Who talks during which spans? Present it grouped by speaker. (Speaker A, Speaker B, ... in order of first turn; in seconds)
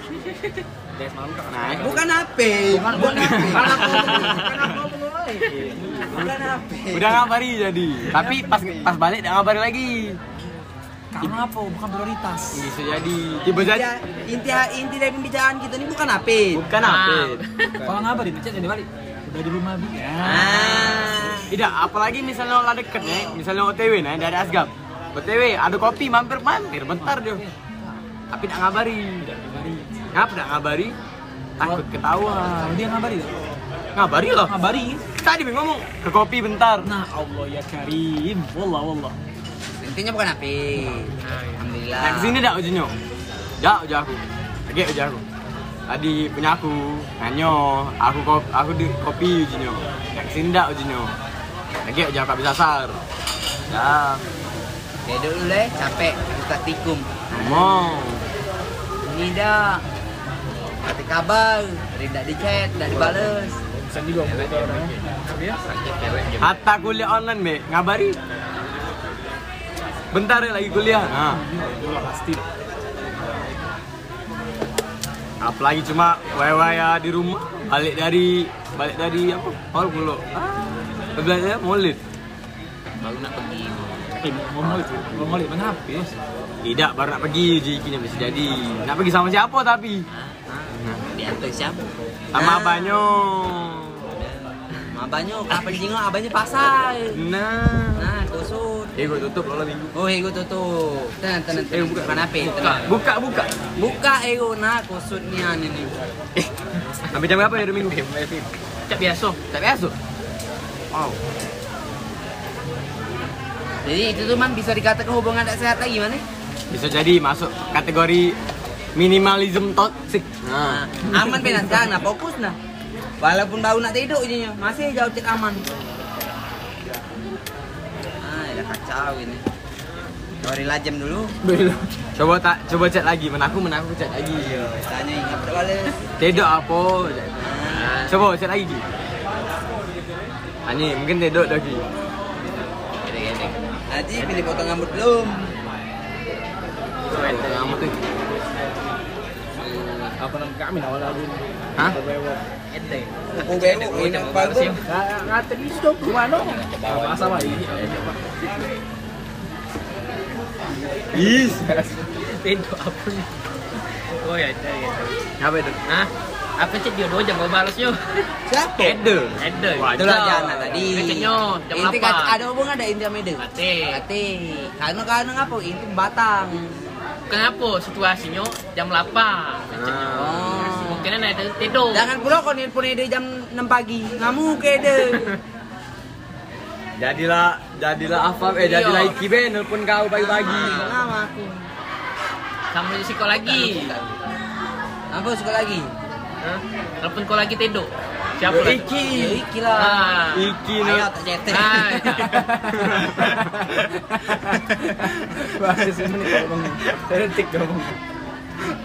Speaker A: 0.9-2.1, 2.7-6.0, 62.9-64.9, 121.2-121.8, 131.4-131.9, 150.2-152.4, 154.7-158.3, 161.2-162.1, 202.2-208.0
Speaker B: 1.5-1.9, 3.9-4.6, 6.9-10.2, 12.5-13.9, 16.5-17.4, 21.5-27.4, 28.3-29.2, 30.1-30.9, 31.6-32.8, 33.9-34.5, 35.2-36.9, 42.0-42.9, 43.6-45.2, 45.9-51.1, 51.8-53.0, 53.7-54.2, 57.3-58.2, 66.4-68.2, 70.1-71.4, 75.4-82.0, 86.6-90.1, 90.8-91.1, 92.3-94.1, 97.1-98.1, 99.0-100.0, 101.5-103.5, 107.1-108.5, 109.5-109.9, 116.7-118.4, 119.0-120.8, 132.2-134.7, 136.2-137.5, 138.1-138.8, 140.7-141.8, 147.1-148.0, 161.1-161.7, 165.4-165.8, 168.8-171.1, 179.7-180.8, 187.0-190.8, 198.5-199.4, 200.3-201.1, 202.6-203.6
Speaker C: 1.7-5.1, 6.1-7.3, 8.1-8.9, 13.5-16.6, 20.2-21.5, 39.8-42.4, 55.1-57.9, 59.0-59.8, 60.8-63.6, 92.3-93.1, 94.9-97.2, 98.0-99.3, 99.9-102.9, 103.8-106.0, 113.8-116.2, 120.7-122.6, 123.2-125.6, 128.2-129.4, 130.4-131.3, 134.4-136.1, 137.4-138.0, 143.9-145.5, 149.6-150.1, 153.3-154.8, 168.5-169.0, 169.9-176.8, 180.1-181.1, 181.9-185.4, 190.1-191.7, 193.3-194.1, 195.1-195.9, 198.8-200.2, 200.8-202.3, 205.1-206.4
Speaker D: 2.9-3.8, 11.1-12.7, 17.8-21.1, 27.0-27.9, 29.2-29.9, 32.6-33.3, 34.5-35.0, 36.8-39.1, 71.1-72.4, 84.2-86.1
Speaker E: 16.8-17.9, 41.2-41.7, 64.3-66.5, 83.0-84.1, 90.1-91.9, 102.5-102.9, 108.9-109.4, 137.6-138.2, 143.0-143.6, 147.1-147.9, 152.7-154.8, 157.1-157.6, 162.1-165.2, 165.8-168.3, 169.4-170.3, 170.9-172.4, 173.4-174.0, 177.3-182.1, 188.5-189.2, 190.4-191.1, 192.7-194.0, 196.4-200.6, 201.5-202.5